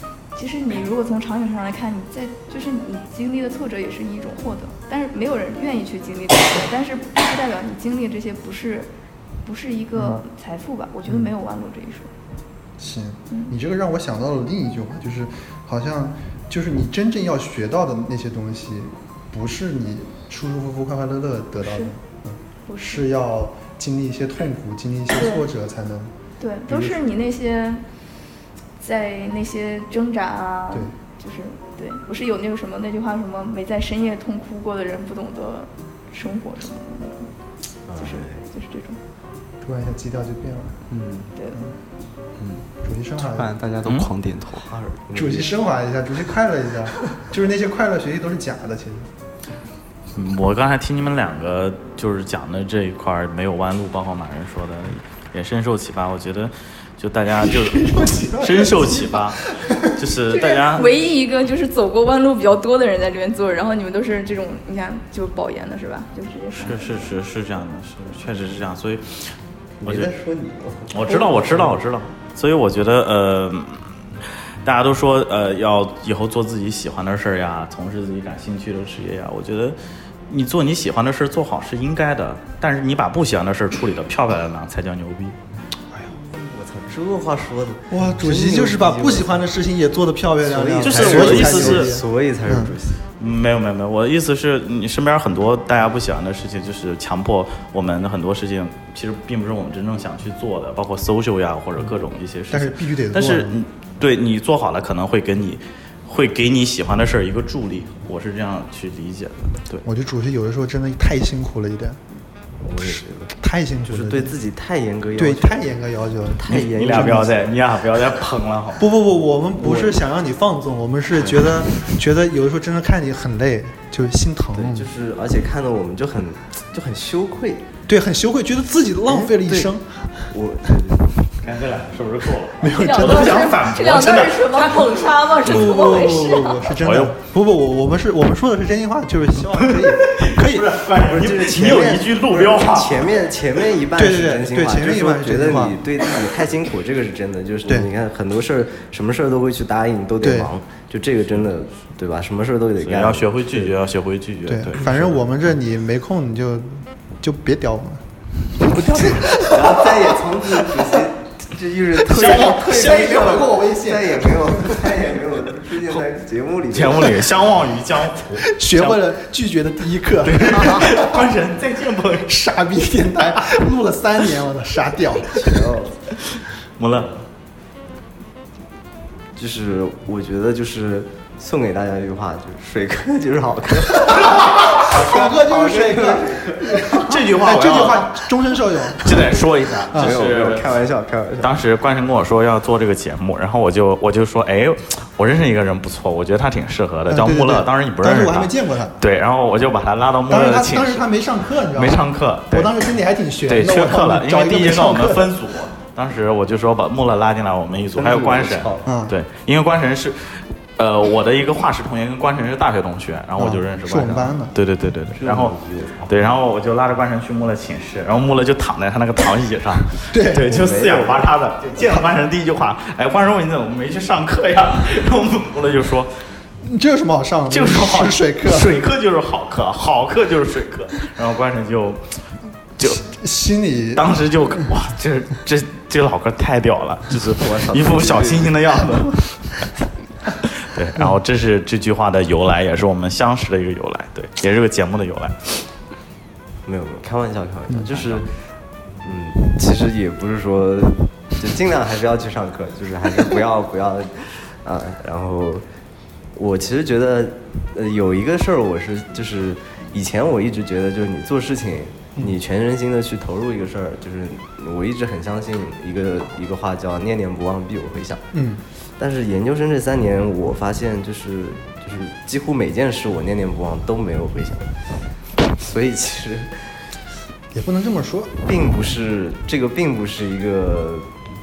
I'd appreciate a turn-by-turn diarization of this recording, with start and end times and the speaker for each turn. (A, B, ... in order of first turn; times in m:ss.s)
0:00.3-0:08.9 A
0:09.4-0:12.1 A
0:10.0-0:10.2 B
0:12.8-0:26.1 B
0:13.3-0:13.6 A
0:21.6-0:21.9 A
0:22.7-0:23.1 A
0:25.1-0:25.5 A
0:26.4-0:27.8 A
0:26.7-0:27.1 B
0:28.8-0:37.3 A
0:37.9-0:38.4 C
0:38.0-0:39.0 A
0:39.6-0:40.8 B
0:40.9-0:41.3 D
0:42.4-0:42.7 D
0:42.8-0:43.5 B
0:43.2-0:44.7 D
0:43.8-0:44.1 E
0:44.6-0:45.5 C
0:45.1-0:49.1 B
0:50.1-1:01.0 E
0:57.3-0:59.9 B
1:00.3-1:07.0 A
1:06.6-1:10.2 E
1:09.8-1:11.8 C
1:10.9-1:14.0 E
1:14.6-1:19.8 E
1:20.3-1:25.4 E
1:26.3-1:29.4 C
1:27.9-1:32.8 B
1:30.4-1:33.0 C
1:30.8-1:32.0 E
1:33.2-1:49.8 E
1:42.5-1:43.6 B
1:49.8-1:52.0 B
1:52.6-1:53.3 C
1:52.8-1:54.4 B
1:53.9-1:55.7 C
1:55.2-1:57.4 B
1:56.3-1:57.5 C
1:56.4-1:58.9 E
1:58.8-2:04.9 B
1:59.6-2:00.0 C
2:04.5-2:07.7 C
2:07.9-2:10.3 B
2:09.1-2:09.7 C
2:10.3-2:11.1 C
2:11.4-2:15.9 E
2:12.6-2:13.7 B
2:12.6-2:16.8 A
2:15.4-2:20.8 B
2:16.8-2:17.2 E
2:19.8-2:23.4 E
2:21.0-2:33.8 C
2:23.9-2:25.8 B
2:30.2-2:30.5 B
2:32.8-2:35.2 E
2:34.5-2:38.0 B
2:38.6-2:40.9 B
2:38.6-2:39.4 E
2:39.4-2:47.4 C
2:42.0-2:43.3 E
2:42.5-2:45.1 B
2:46.7-2:49.0 E
2:48.4-2:51.2 B
2:50.2-2:52.3 E
2:52.2-2:55.8 B
2:55.4-2:56.0 C
2:56.8-2:57.1 E
2:59.4-3:08.0 C
3:04.1-3:09.4 B
3:07.0-3:08.2 E
3:09.0-3:10.7 E
3:09.9-3:11.6 C
3:11.4-3:21.1 E
3:17.1-3:19.0 B
3:20.3-3:25.4 B
3:21.7-3:22.8 E
3:23.5-3:46.1 E
3:27.9-3:28.9 C
3:28.8-3:29.2 B
3:33.4-3:34.6 B
3:35.1-3:36.3 C
3:40.1-3:40.6 B
3:40.5-3:41.2 C
3:46.6-3:48.7 B
3:47.5-3:52.2 E
3:52.8-3:53.0 E
3:52.8-3:54.2 B
3:54.0-3:59.7 E
3:57.2-3:59.1 C
4:00.4-4:05.7 E
4:06.6-4:15.6 C
4:07.8-4:08.2 E
4:16.3-4:28.2 C
4:28.3-4:28.6 B
4:29.0-4:34.7 C
4:35.4-4:36.8 C
4:37.5-4:38.4 B
4:38.4-4:41.1 C